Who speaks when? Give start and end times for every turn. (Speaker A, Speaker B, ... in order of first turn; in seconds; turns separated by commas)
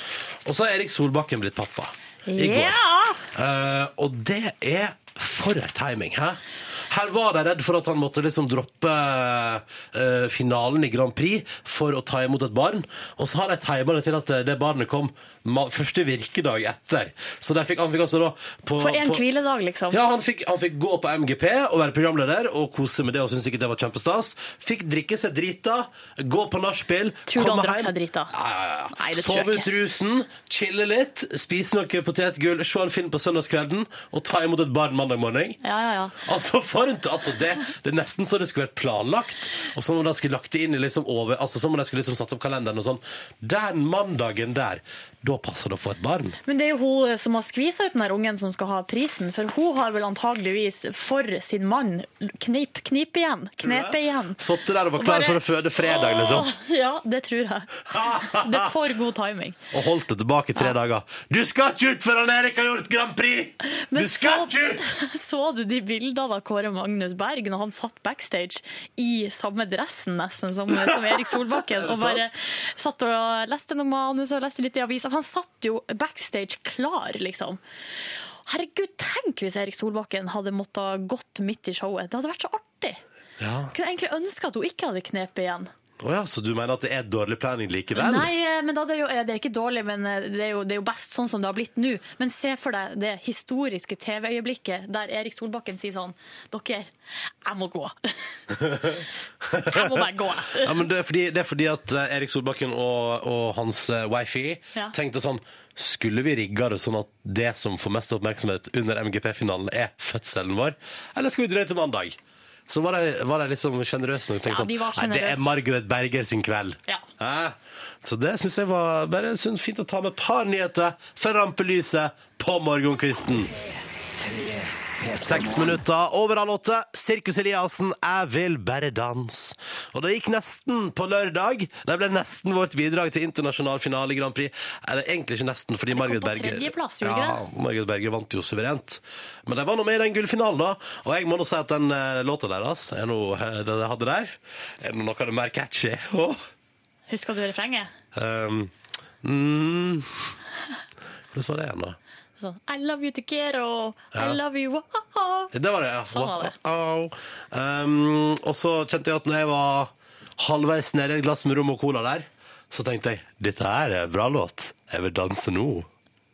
Speaker A: 0.4-2.8, Speaker B: 2.3-3.2, Speaker A: 3.3-19.2, Speaker B: 18.8-20.0, Speaker A: 19.9-35.6, Speaker B: 27.3-28.3, Speaker B: 28.9-29.7, Speaker B: 35.6-36.1, Speaker A: 36.2-46.4, Speaker B: 46.5-54.4, Speaker A: 53.6-56.5, Speaker B: 55.0-59.6, Speaker A: 57.9-58.7, Speaker A: 59.7-64.9, Speaker B: 63.7-77.6, Speaker A: 71.7-72.2, Speaker B: 78.5-83.0, Speaker A: 83.4-83.7, Speaker B: 83.7-85.7, Speaker A: 86.0-88.3, Speaker B: 87.9-96.9, Speaker B: 97.4-98.0, Speaker A: 98.7-123.5, Speaker B: 99.7-100.8, Speaker B: 114.5-115.5, Speaker A: 125.1-146.4, Speaker B: 135.9-137.4, Speaker B: 147.1-147.9, Speaker A: 148.1-150.2, Speaker A: 151.3-152.0, Speaker B: 152.4-155.5, Speaker A: 154.1-154.4, Speaker A: 155.5-165.9, Speaker B: 156.1-156.5